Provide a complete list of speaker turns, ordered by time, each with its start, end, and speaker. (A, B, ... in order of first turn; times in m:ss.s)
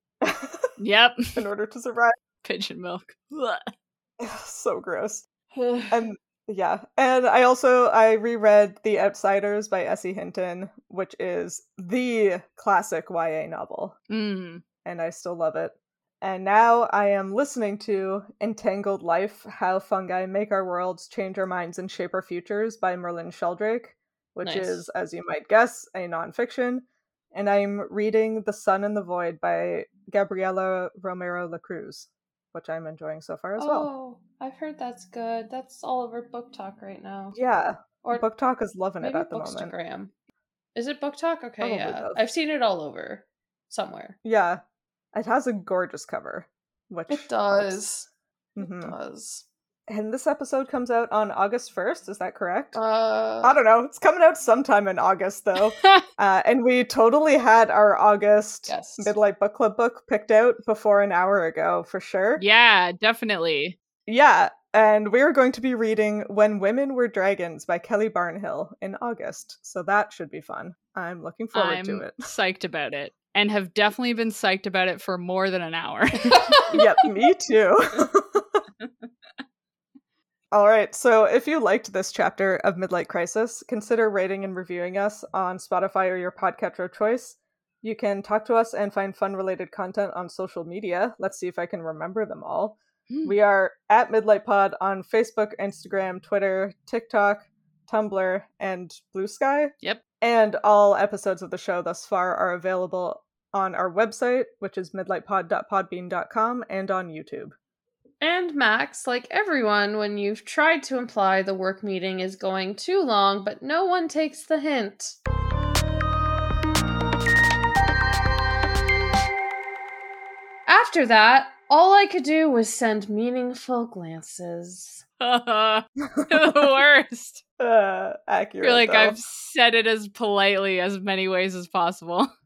0:00.2-0:00.7 A
0:00.8-0:01.4 B
0:01.4-0:02.2 A
0:02.4-0:03.7 B
0:04.2-0:05.3 A
0:05.5-0:05.9 B
0:05.9-0:14.0 A
0:14.1-0:14.6 B
0:14.8-0:33.9 A
0:24.4-0:24.9 B
0:33.6-0:37.4 C
0:37.3-0:39.7 A
0:39.0-0:40.1 C
0:40.8-0:44.2 C
0:41.6-0:42.2 A
0:44.2-0:44.6 A
0:45.1-0:47.8 A
0:47.1-0:49.5 C
0:48.6-0:49.0 A
0:49.9-0:52.8 A
0:52.8-0:53.6 C
0:53.4-1:02.4 A
0:55.8-0:56.0 B
0:58.7-0:59.1 C
1:02.4-1:03.8 B
1:04.1-1:12.3 A
1:11.6-1:16.8 B
1:16.2-1:16.7 C
1:16.7-1:18.6 A
1:20.5-1:47.6 A
1:33.1-1:33.4 B
1:48.2-1:55.2 C
2:00.7-2:05.0 C
2:05.2-2:07.4 B
2:06.2-2:06.5 A
2:07.6-2:09.2 A
2:08.6-2:12.3 B